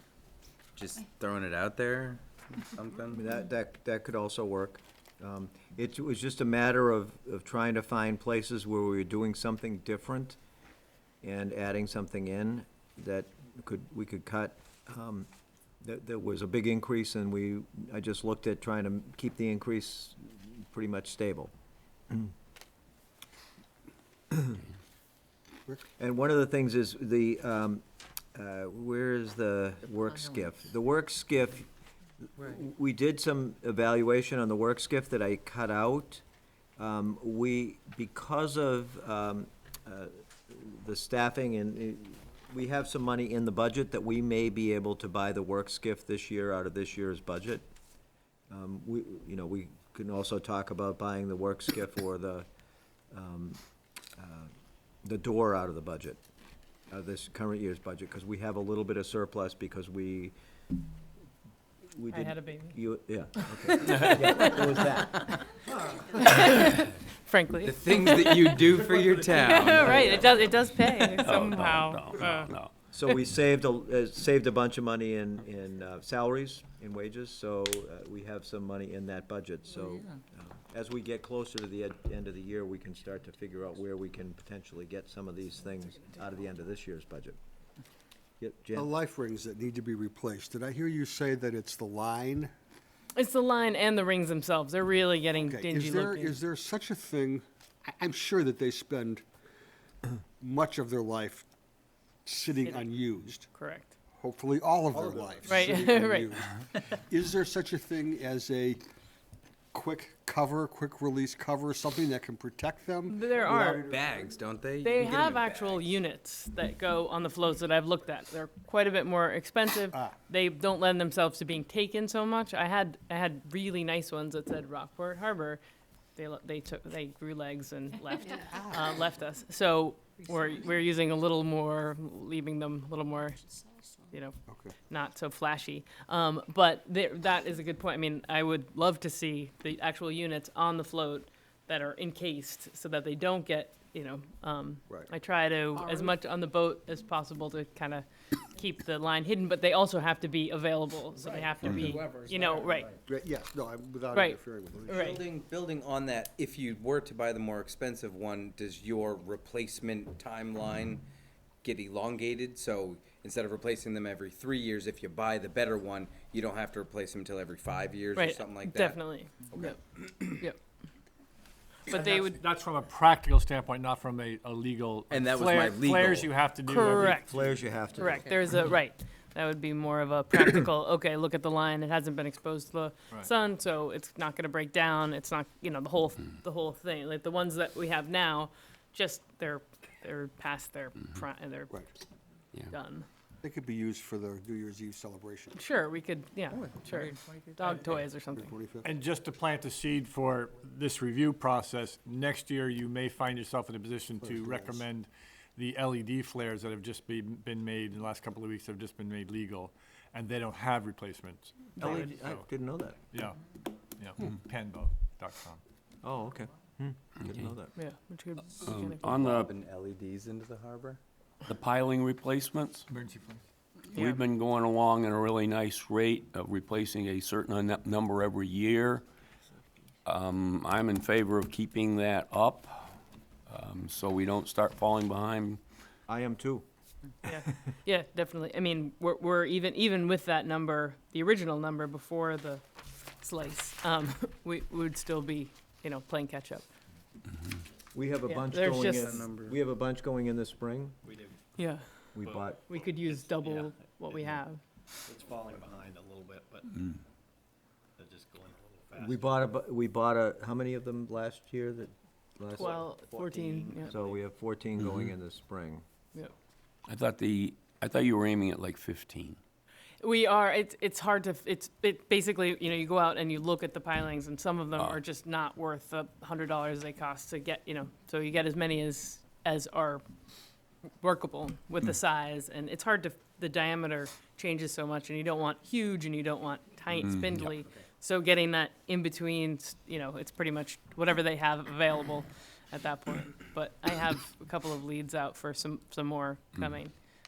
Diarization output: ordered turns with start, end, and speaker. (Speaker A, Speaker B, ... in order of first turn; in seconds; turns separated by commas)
Speaker A: 0.8-3.2, Speaker B: 3.1-10.4, Speaker B: 11.2-15.3, Speaker B: 15.8-21.5, Speaker B: 24.3-24.6, Speaker B: 26.0-27.8, Speaker B: 28.3-31.7, Speaker B: 32.4-36.2, Speaker B: 36.8-47.6, Speaker B: 48.5-52.5, Speaker B: 53.1-53.6, Speaker B: 54.2-54.5, Speaker B: 55.0-56.2, Speaker B: 56.9-60.3, Speaker B: 61.9-65.3, Speaker C: 62.1-62.8, Speaker C: 66.2-68.6, Speaker A: 67.6-70.4, Speaker C: 69.3-72.5, Speaker B: 69.8-70.5, Speaker D: 71.2-72.7, Speaker B: 72.9-87.4, Speaker B: 88.4-88.9, Speaker E: 88.7-92.5, Speaker C: 93.2-96.4, Speaker E: 95.3-99.2, Speaker E: 100.4-101.5, Speaker E: 102.2-103.5, Speaker C: 102.6-102.9, Speaker C: 103.5-103.9, Speaker E: 104.2-108.8, Speaker F: 104.9-105.6, Speaker C: 105.5-106.3, Speaker E: 109.7-114.2, Speaker C: 113.1-113.9, Speaker A: 113.5-115.9, Speaker C: 114.8-125.6, Speaker E: 119.9-120.2, Speaker C: 126.2-133.4, Speaker E: 128.5-128.9, Speaker E: 134.5-134.8, Speaker C: 134.9-152.9, Speaker A: 151.2-152.9, Speaker E: 153.1-155.2, Speaker C: 154.1-155.2, Speaker A: 154.9-161.0, Speaker A: 161.6-169.0, Speaker C: 168.1-170.6, Speaker A: 169.6-170.4, Speaker C: 171.9-172.4, Speaker G: 171.9-177.7, Speaker A: 175.1-176.3, Speaker C: 176.7-177.2, Speaker B: 177.0-178.5, Speaker C: 178.0-191.8, Speaker C: 192.7-193.1, Speaker E: 193.4-195.6, Speaker C: 195.6-198.5, Speaker F: 196.7-197.6, Speaker E: 198.3-198.9, Speaker G: 198.8-212.4, Speaker E: 204.2-204.9, Speaker B: 211.8-213.0, Speaker G: 213.1-213.4, Speaker G: 214.0-215.6, Speaker B: 216.0-217.7, Speaker D: 217.2-217.5, Speaker C: 217.8-219.1, Speaker D: 218.6-219.5, Speaker A: 219.1-221.0, Speaker D: 221.5-222.9, Speaker G: 222.9-223.4, Speaker D: 223.9-229.0, Speaker D: 230.1-232.9, Speaker D: 233.5-235.6, Speaker B: 236.1-236.6, Speaker C: 237.2-242.6, Speaker C: 243.2-246.7, Speaker B: 247.9-251.0, Speaker C: 248.3-249.1, Speaker A: 248.8-249.6, Speaker B: 252.1-252.6, Speaker F: 252.2-254.4, Speaker C: 252.7-254.6, Speaker F: 255.1-256.7, Speaker F: 258.0-259.2, Speaker B: 259.0-262.9, Speaker C: 262.6-263.9, Speaker F: 262.6-263.9, Speaker B: 263.8-265.8, Speaker D: 264.8-265.1, Speaker D: 266.9-269.4, Speaker C: 270.0-280.0, Speaker C: 281.0-296.9, Speaker D: 286.9-287.6